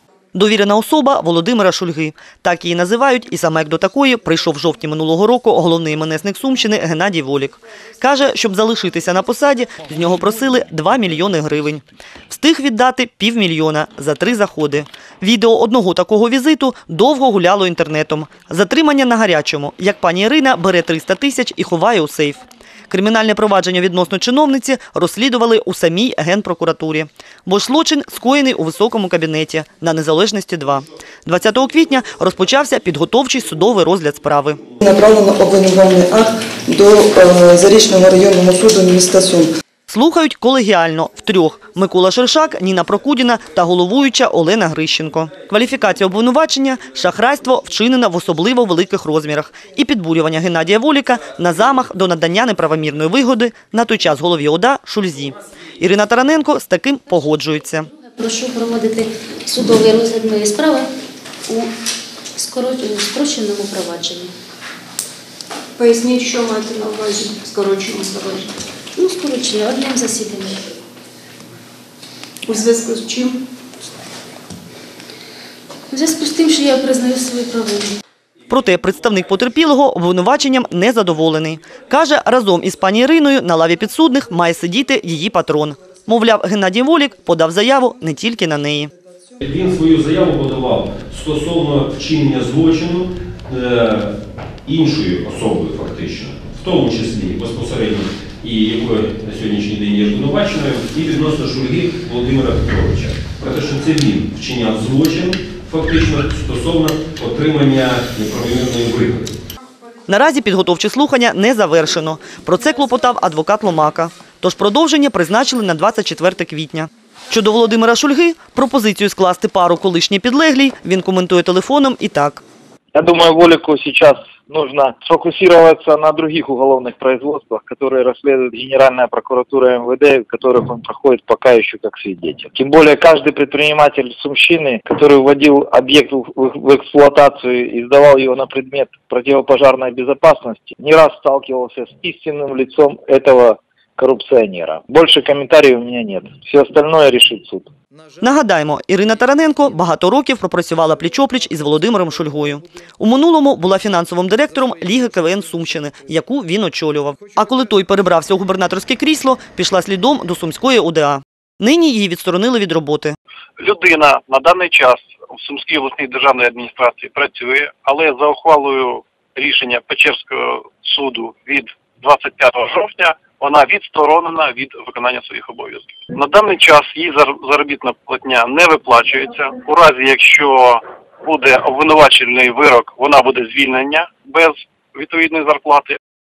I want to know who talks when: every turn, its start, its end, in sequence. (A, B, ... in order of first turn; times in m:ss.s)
0:00.3-0:34.6 A
0:34.8-0:39.5 B
0:39.9-0:57.9 A
0:57.9-1:00.9 C
1:02.4-1:04.3 C
1:05.8-1:08.5 D
1:09.0-1:10.6 C
1:12.4-1:13.4 D
1:15.9-1:18.0 C
1:18.5-1:28.9 A
1:29.4-1:34.1 E
1:34.6-1:49.3 E
1:50.1-2:02.4 A
2:02.9-2:27.7 F
2:28.2-2:43.2 A
2:43.6-3:06.0 G